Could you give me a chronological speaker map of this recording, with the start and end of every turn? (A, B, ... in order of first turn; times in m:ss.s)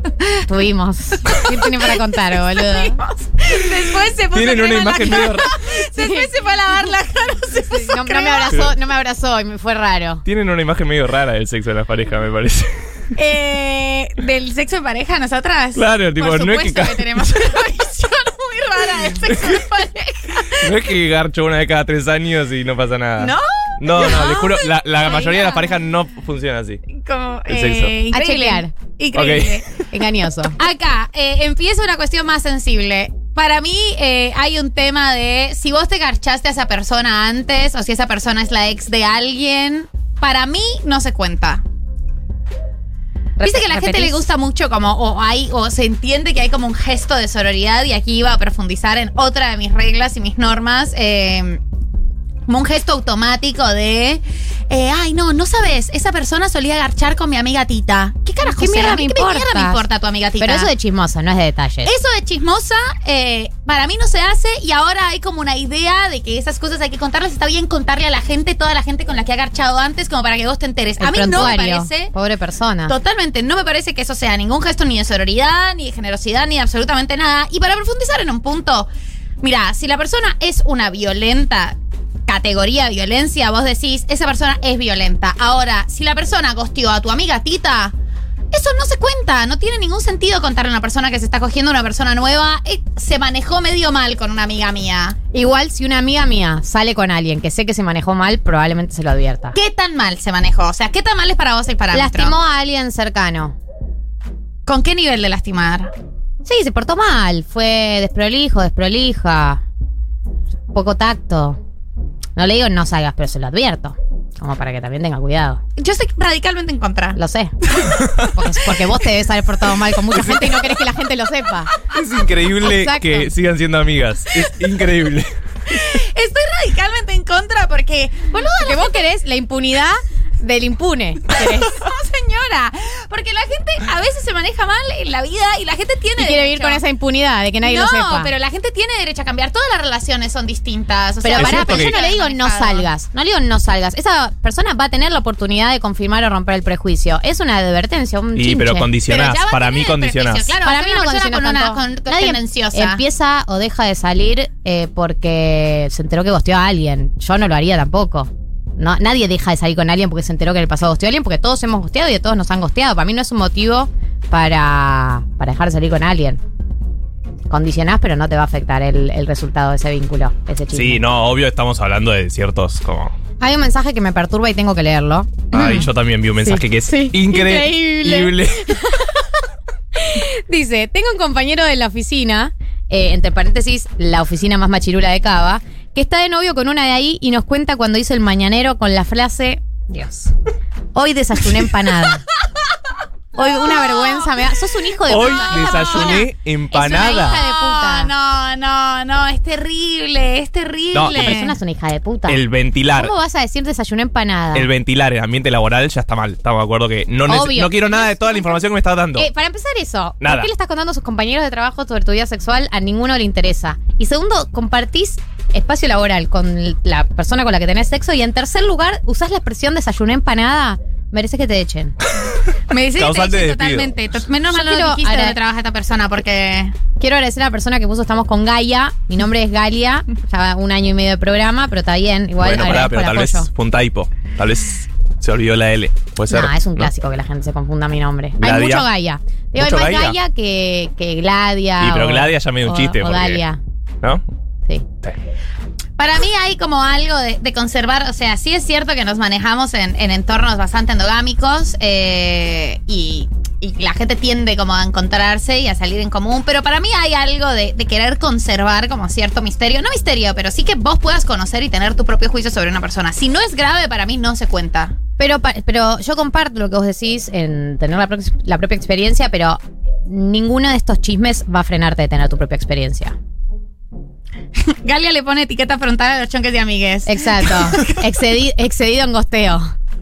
0:00.4-0:03.0 A
0:02.6-0:08.7 B
0:04.3-0:05.5 C
0:05.5-0:06.3 A
0:07.5-0:10.2 A
0:10.2-0:12.9 C
0:13.2-0:20.7 B
0:15.8-0:17.5 C
0:19.3-0:19.6 C
0:20.6-0:26.8 C
0:23.2-0:25.8 B
0:26.9-0:29.7 B
0:27.5-0:28.0 C
0:28.1-0:28.7 A
0:29.1-0:29.6 C
0:29.9-0:30.6 A
0:30.6-0:41.6 B
0:43.4-0:44.2 A
0:43.4-0:51.6 B
0:52.5-1:00.7 B
0:58.4-0:59.8 A
1:00.4-1:01.9 A
1:01.8-1:12.1 B
1:11.0-1:13.0 A
1:12.9-1:18.9 B
1:19.4-1:27.9 B
1:28.5-1:35.2 B
1:35.3-1:39.6 A
1:39.5-1:42.4 B
1:41.9-1:43.6 A
1:44.7-1:45.9 B
1:46.4-1:49.6 A
1:50.7-1:51.6 A
1:52.4-1:55.6 A
1:55.8-1:57.2 B
1:57.1-2:01.7 A
2:00.2-2:00.7 B
2:01.9-2:05.3 C
2:02.6-2:03.3 A
2:05.7-2:09.0 B
2:08.6-2:11.8 A
2:11.3-2:16.8 B
2:16.2-2:18.3 A
2:17.6-2:22.9 B
2:21.2-2:28.9 A
2:21.4-2:21.9 C
2:28.4-2:30.6 C
2:29.1-2:33.0 B
2:30.6-2:46.4 A
2:47.5-2:51.0 A
2:50.7-2:53.1 C
2:53.4-2:55.9 A
2:55.5-2:58.9 C
2:56.4-2:59.2 A
3:00.0-3:10.3 A
3:10.9-3:12.2 A
3:13.4-3:18.1 A
3:13.4-3:14.3 B
3:15.1-3:17.4 C
3:15.1-3:16.3 B
3:16.8-3:21.6 B
3:20.9-3:21.4 C
3:21.2-3:22.4 A
3:22.3-3:23.1 C
3:22.9-3:24.7 A
3:24.5-3:29.3 C
3:27.3-3:28.0 A
3:29.2-3:42.0 A
3:30.2-3:30.5 C
3:42.7-3:46.7 B
3:42.9-3:43.9 C
3:44.5-3:45.4 A
3:47.0-3:53.5 A
3:52.4-3:56.9 C
3:56.3-4:03.6 A
3:58.4-3:58.9 C
3:59.6-4:00.2 C
4:01.8-4:03.4 C
4:06.0-4:25.0 B
4:25.2-4:33.2 A
4:34.6-4:38.1 B
4:37.1-4:39.7 A